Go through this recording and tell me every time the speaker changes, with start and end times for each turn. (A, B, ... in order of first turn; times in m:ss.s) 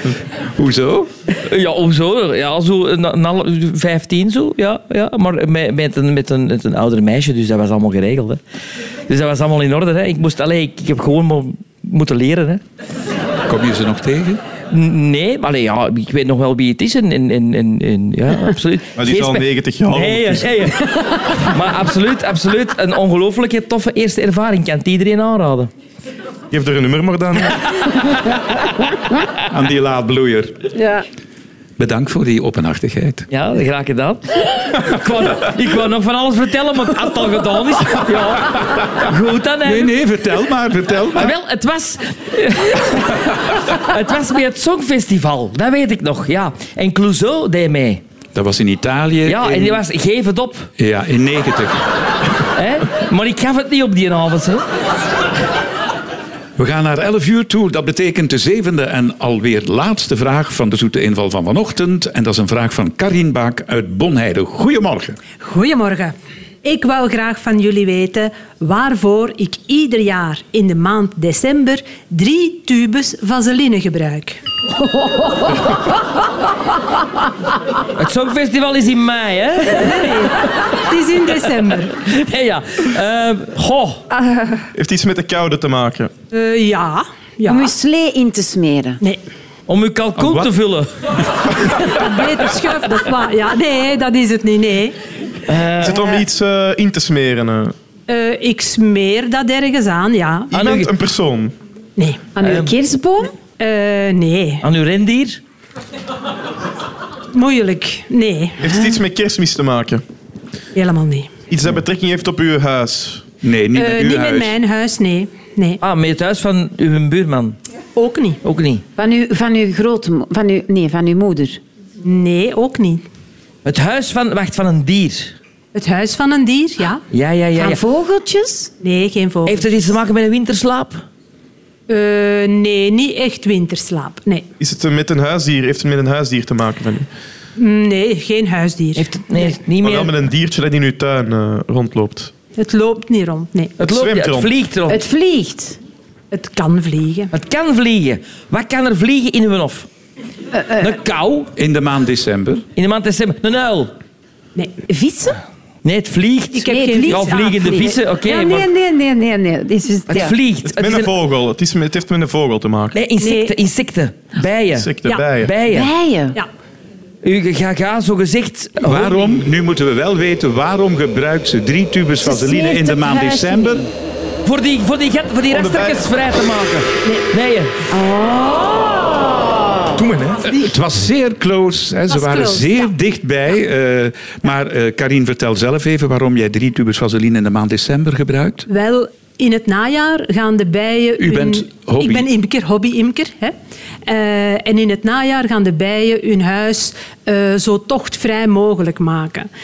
0:00.6-0:01.1 A
0:01.4-0:08.4 B
0:09.1-0:12.6 B
0:13.4-0:14.4 A
0:14.7-0:25.7 B
0:18.9-0:20.7 C
0:26.5-0:28.1 C
0:29.4-0:30.7 A
0:30.7-0:31.0 D
0:31.8-0:33.3 A
0:33.3-0:39.9 B
0:39.6-0:41.3 A
0:41.1-0:48.0 B
0:48.3-0:49.8 A
0:49.2-0:50.7 B
0:50.8-0:51.9 A
0:52.5-0:54.6 B
0:56.6-1:05.2 A
1:05.4-1:14.4 E
1:18.0-1:20.4 B
1:19.7-1:21.9 E
1:22.0-1:24.0 B
1:24.7-1:26.1 C
1:26.3-1:27.7 E
1:27.4-1:29.0 D
1:29.7-1:31.1 B
1:30.2-1:30.5 A
1:31.7-1:35.0 E
1:35.5-1:36.2 B
1:35.8-1:37.7 C
1:38.1-1:40.5 E
1:40.5-1:40.9 B
1:40.5-1:41.5 C
1:42.0-1:42.3 E
1:42.4-1:43.4 D
1:42.4-1:42.7 B
1:43.5-1:44.6 E
1:44.6-1:45.4 B
1:47.3-1:48.7 E
1:48.6-1:50.0 C
1:50.7-1:51.3 E
1:51.5-1:53.2 C
1:53.4-1:54.5 A
1:53.7-1:55.8 E
1:55.8-1:57.6 B
1:58.0-1:58.4 E
1:58.4-1:58.8 B
1:59.0-2:01.6 D
2:02.0-2:03.0 E
2:03.6-2:05.4 B
2:05.7-2:07.0 E
2:07.1-2:07.8 B
2:07.6-2:08.7 D
2:08.8-2:09.7 E
2:09.4-2:11.0 B
2:11.9-2:14.5 E
2:14.6-2:17.1 C
2:17.6-2:19.4 E
2:19.0-2:20.1 B
2:19.8-2:22.3 C
2:22.5-2:23.8 E
2:23.8-2:25.0 B
2:23.8-2:24.5 C
2:24.9-2:25.8 D
2:26.3-2:27.3 E
2:27.3-2:29.9 B
2:30.5-2:31.0 D
2:30.8-2:31.5 B
2:31.6-2:32.6 A
2:32.8-2:33.9 B
2:34.9-2:35.4 D
2:35.8-2:38.7 B
2:36.5-2:37.9 E
2:36.7-2:40.4 D
2:40.1-2:41.1 B
2:40.6-2:43.0 C
2:42.9-2:45.9 B
2:43.2-2:43.5 E
2:44.7-2:45.5 C
2:45.7-2:46.4 D
2:47.2-2:49.4 B
2:48.8-2:53.8 A
2:52.2-2:53.9 D
2:54.4-2:57.7 B
2:55.5-2:56.1 C
2:57.9-3:00.0 D
3:00.0-3:00.4 C
3:00.4-3:08.6 A
3:02.1-3:02.9 E
3:08.7-3:13.5 E
3:11.2-3:12.3 A
3:14.0-3:19.5 E